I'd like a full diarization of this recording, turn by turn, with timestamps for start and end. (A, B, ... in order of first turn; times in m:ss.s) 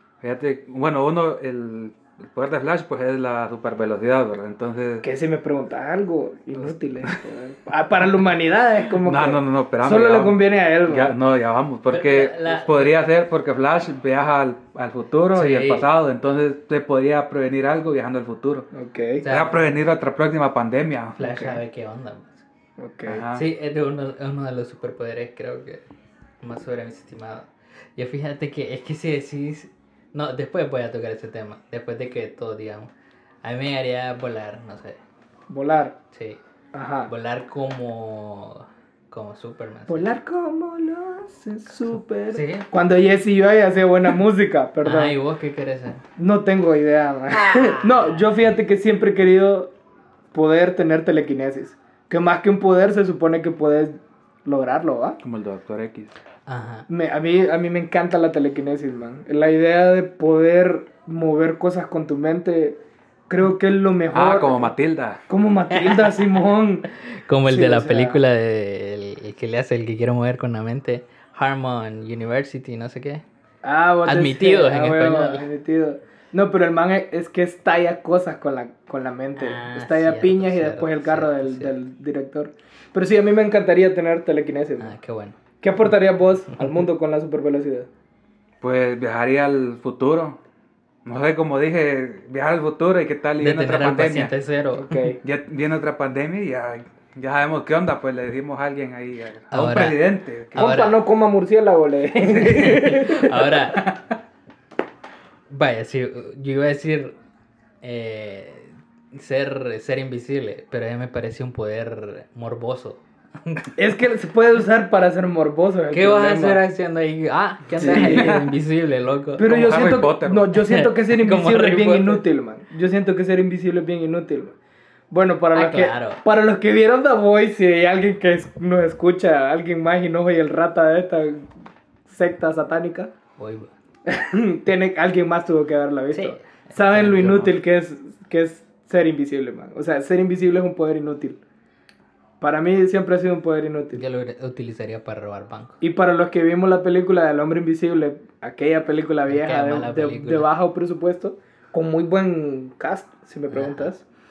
0:00.2-0:05.0 A
0:05.0-0:11.2 B
0:08.9-0:18.7 A
0:11.9-0:13.0 C
0:15.3-0:15.9 C
0:18.7-0:19.2 B
0:19.2-0:19.7 C
0:19.2-0:21.2 A
0:21.2-0:22.4 C
0:21.2-0:21.6 B
0:22.8-0:23.2 B
0:23.0-0:23.4 A
0:23.3-0:25.8 C
0:26.4-0:32.9 C
0:33.4-0:35.0 C
0:35.5-0:36.0 B
0:36.1-0:36.4 C
0:36.7-0:37.1 B
0:37.1-0:40.1 C
0:39.9-0:45.2 B
0:42.3-0:42.7 C
0:44.8-0:46.0 C
0:46.2-0:49.7 B
0:47.3-0:48.3 C
0:50.3-0:55.2 B
0:55.2-0:56.1 A
0:56.4-0:56.9 C
0:56.9-1:04.7 B
1:04.1-1:05.2 A
1:05.3-1:06.9 B
1:05.7-1:06.3 C
1:07.0-1:13.2 C
1:07.4-1:08.2 B
1:13.6-1:24.9 B
1:14.0-1:15.5 C
1:19.4-1:21.8 C
1:24.8-1:25.4 C
1:25.6-1:27.9 B
1:28.6-1:30.4 A
1:31.0-1:34.3 A
1:33.4-1:35.1 C
1:34.8-1:35.2 B
1:35.2-1:40.6 A
1:39.5-1:40.0 C
1:40.5-1:41.0 C
1:40.6-1:43.6 B
1:42.2-1:43.8 C
1:45.5-1:47.1 C
1:47.8-1:53.8 C
1:53.8-1:56.6 B
1:55.9-1:59.6 C
1:57.8-1:58.5 B
1:57.9-1:58.4 A
1:59.4-2:04.5 B
1:59.4-2:00.5 A
2:00.5-2:02.2 C
2:05.1-2:11.5 B
2:05.5-2:06.2 C
2:12.1-2:13.1 B
2:13.4-2:13.7 C
2:14.0-2:21.4 B
2:16.1-2:17.6 C
2:22.4-2:24.0 B
2:23.9-2:25.8 C
2:25.8-2:34.0 B
2:29.3-2:30.5 C
2:33.5-2:33.9 C